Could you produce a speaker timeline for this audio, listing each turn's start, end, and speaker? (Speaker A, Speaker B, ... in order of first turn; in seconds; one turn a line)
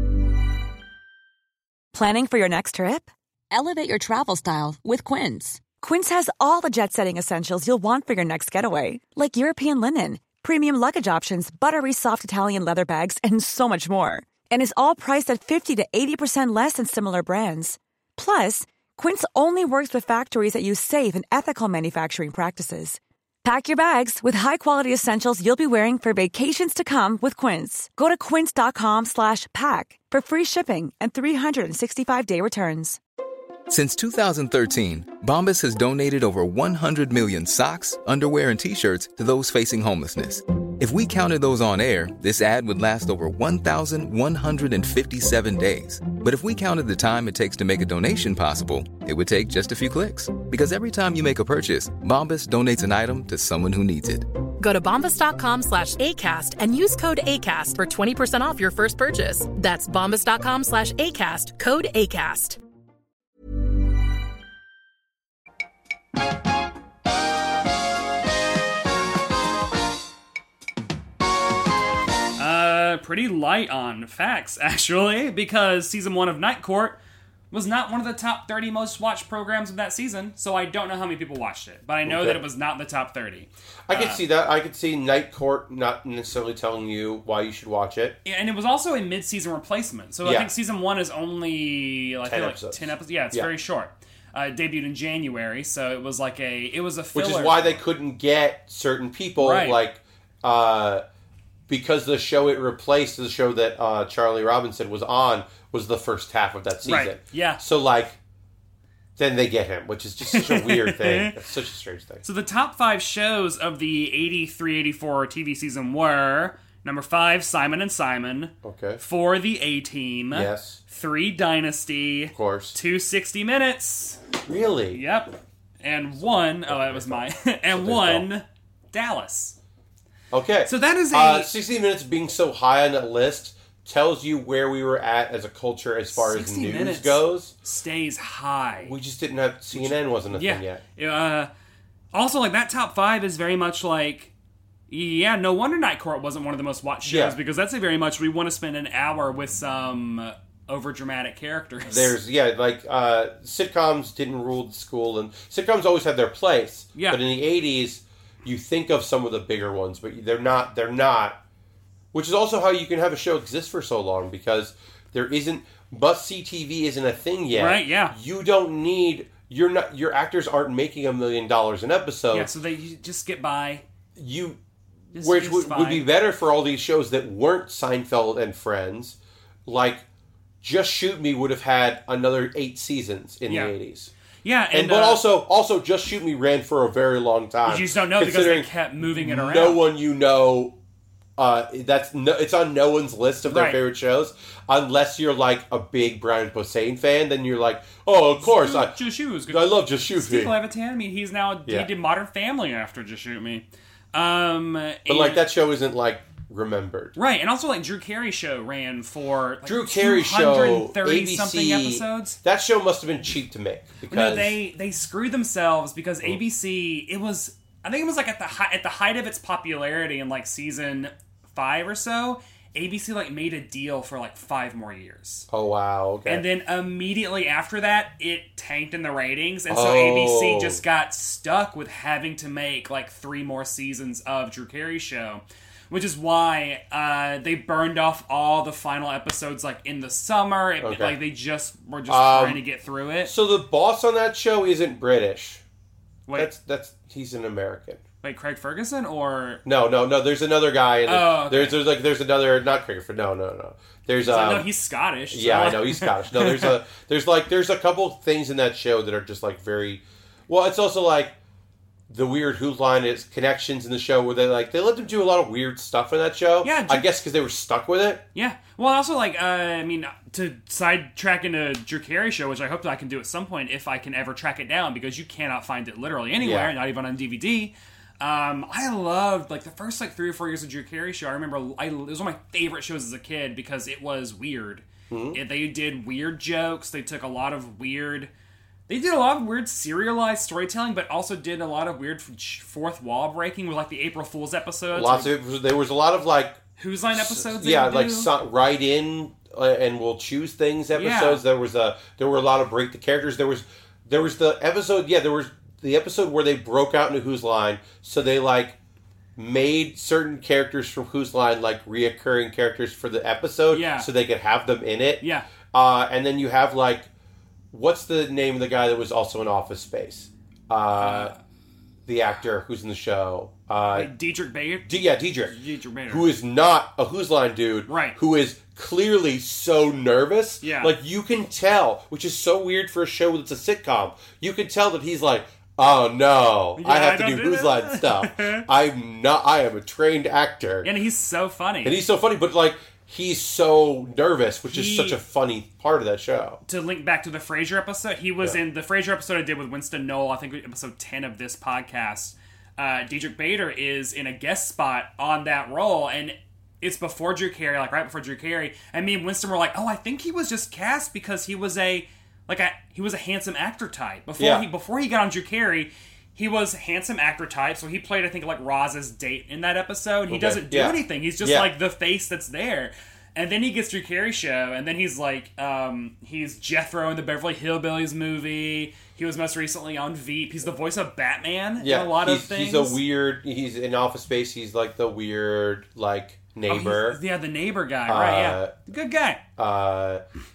Speaker A: 1.9-33.0
Speaker B: 33.7-54.2
Speaker C: 54.6-62.6
Speaker D: 72.4-77.0
Speaker D: 77.5-84.2
Speaker E: 82.0-82.4
Speaker E: 83.9-88.2
Speaker D: 88.2-97.8
Speaker E: 90.2-90.5
Speaker E: 92.2-93.5
Speaker E: 97.1-101.0
Speaker D: 99.4-99.8
Speaker E: 101.7-108.2
Speaker D: 106.8-107.6
Speaker E: 109.2-112.2
Speaker D: 110.3-111.3
Speaker D: 112.2-124.2
Speaker E: 118.6-119.0
Speaker E: 120.3-120.8
Speaker E: 122.3-122.8
Speaker E: 124.5-125.0
Speaker D: 124.9-129.6
Speaker E: 126.4-128.3
Speaker E: 130.3-137.5
Speaker D: 130.6-131.5
Speaker D: 136.1-138.9
Speaker E: 138.8-140.8
Speaker D: 139.7-141.5
Speaker D: 142.1-144.3
Speaker D: 144.9-152.1
Speaker E: 147.0-147.4
Speaker E: 151.8-161.4
Speaker D: 156.9-157.2
Speaker E: 162.1-172.5
Speaker D: 167.5-168.1
Speaker D: 172.3-173.8
Speaker E: 174.2-174.6
Speaker D: 175.1-176.1
Speaker E: 175.1-180.0
Speaker E: 180.6-184.1
Speaker D: 183.5-183.7
Speaker D: 184.4-185.2
Speaker E: 184.7-190.7
Speaker D: 187.7-189.8
Speaker E: 191.4-200.6
Speaker D: 193.5-193.8
Speaker D: 198.4-205.4
Speaker E: 205.1-207.2
Speaker D: 207.2-212.4
Speaker E: 209.6-214.6
Speaker D: 214.1-225.5
Speaker E: 225.5-226.4
Speaker D: 226.3-243.3
Speaker E: 229.7-230.8
Speaker E: 240.8-241.2
Speaker E: 242.1-242.6
Speaker E: 243.2-245.6
Speaker E: 246.3-248.0
Speaker D: 248.2-249.6
Speaker E: 249.6-254.7
Speaker D: 251.1-251.8
Speaker D: 254.2-256.8
Speaker E: 255.3-261.3
Speaker E: 262.1-268.2
Speaker D: 266.6-267.1
Speaker D: 268.3-288.3
Speaker E: 276.4-276.7
Speaker E: 285.1-285.4
Speaker D: 288.9-295.3
Speaker E: 294.9-296.6
Speaker D: 296.8-298.3
Speaker E: 297.1-308.8
Speaker D: 300.9-301.4
Speaker E: 309.4-317.1
Speaker D: 313.7-314.1
Speaker D: 315.2-315.5
Speaker E: 317.7-321.3
Speaker D: 321.0-321.4
Speaker E: 322.1-324.1
Speaker D: 323.9-324.9
Speaker E: 324.8-325.5
Speaker D: 325.5-326.2
Speaker E: 326.1-340.9
Speaker D: 327.9-328.2
Speaker D: 330.6-330.9
Speaker D: 336.8-338.6
Speaker D: 340.8-342.0
Speaker E: 341.8-346.6
Speaker D: 344.7-345.2
Speaker D: 346.6-383.0
Speaker E: 364.4-364.7
Speaker E: 370.3-371.7
Speaker E: 381.8-387.2
Speaker D: 386.7-389.4
Speaker E: 388.1-388.7
Speaker E: 389.6-390.2